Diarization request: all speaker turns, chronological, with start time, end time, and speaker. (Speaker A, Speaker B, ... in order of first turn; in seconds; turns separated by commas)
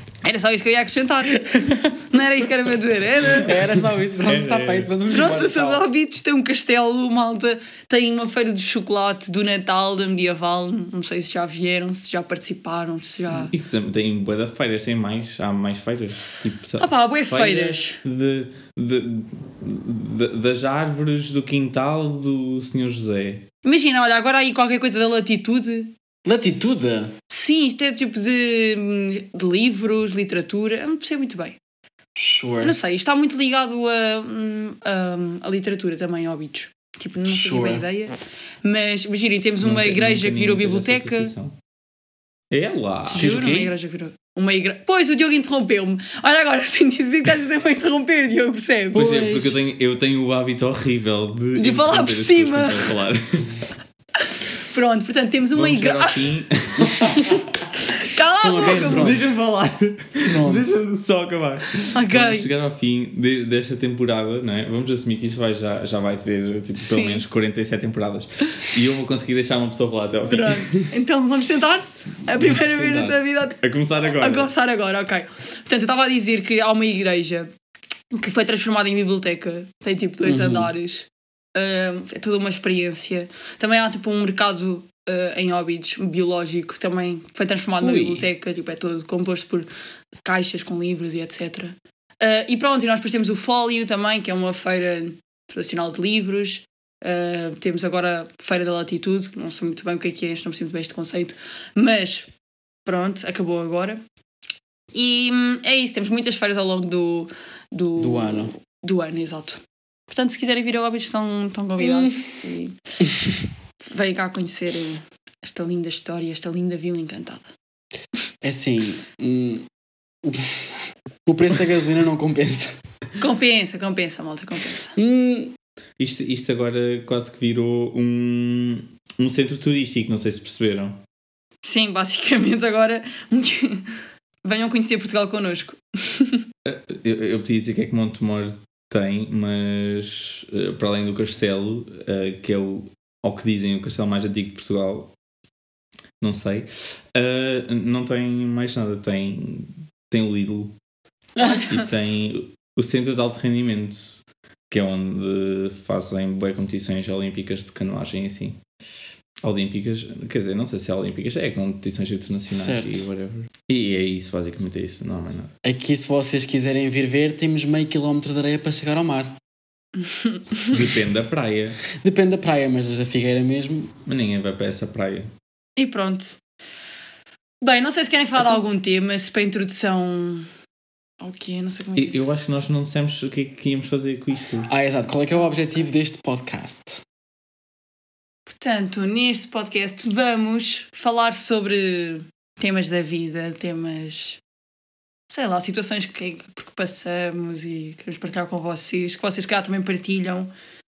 Speaker A: 0.2-3.7, Speaker B: 1.4-2.0, Speaker B: 3.4-5.9, Speaker C: 3.5-4.9, Speaker A: 5.1-13.5, Speaker C: 13.3-23.4, Speaker A: 16.8-18.0, Speaker A: 23.6-25.9, Speaker B: 26.3-27.1, Speaker A: 27.3-31.6, Speaker B: 32.2-32.8, Speaker A: 32.6-41.3, Speaker B: 37.2-37.9, Speaker C: 39.6-41.6, Speaker C: 42.5-43.4, Speaker A: 43.1-49.0, Speaker B: 43.1-43.7, Speaker B: 48.9-49.6, Speaker C: 48.9-53.6, Speaker A: 51.6-53.0, Speaker A: 54.7-56.3, Speaker C: 55.5-57.1, Speaker A: 57.0-57.4, Speaker A: 58.0-59.2, Speaker B: 58.3-59.3, Speaker C: 58.9-70.9, Speaker B: 60.2-60.7, Speaker A: 61.9-62.5, Speaker A: 66.8-67.2, Speaker A: 70.3-77.5, Speaker B: 72.3-73.2, Speaker C: 73.6-74.5, Speaker A: 78.1-89.7, Speaker B: 80.2-80.7, Speaker B: 87.8-88.3, Speaker A: 90.2-102.3, Speaker A: 102.8-104.0, Speaker A: 104.9-112.8, Speaker B: 108.0-108.5, Speaker B: 111.8-112.1, Speaker A: 113.9-117.5, Speaker B: 118.4-119.7, Speaker B: 120.2-122.7, Speaker A: 123.2-124.9, Speaker B: 125.0-125.5, Speaker C: 126.0-131.0, Speaker A: 131.6-136.4, Speaker C: 136.7-145.1, Speaker C: 146.2-150.7, Speaker A: 151.4-151.8, Speaker C: 151.4-158.6, Speaker C: 159.4-165.5, Speaker B: 162.5-163.1, Speaker B: 165.6-169.3, Speaker A: 170.0-170.8, Speaker C: 170.7-171.8, Speaker B: 172.0-173.9, Speaker C: 174.1-175.3, Speaker A: 175.8-176.4, Speaker A: 177.6-180.5, Speaker A: 181.2-182.2, Speaker C: 182.0-184.7, Speaker B: 184.7-187.0, Speaker A: 188.5-194.4, Speaker A: 195.3-200.5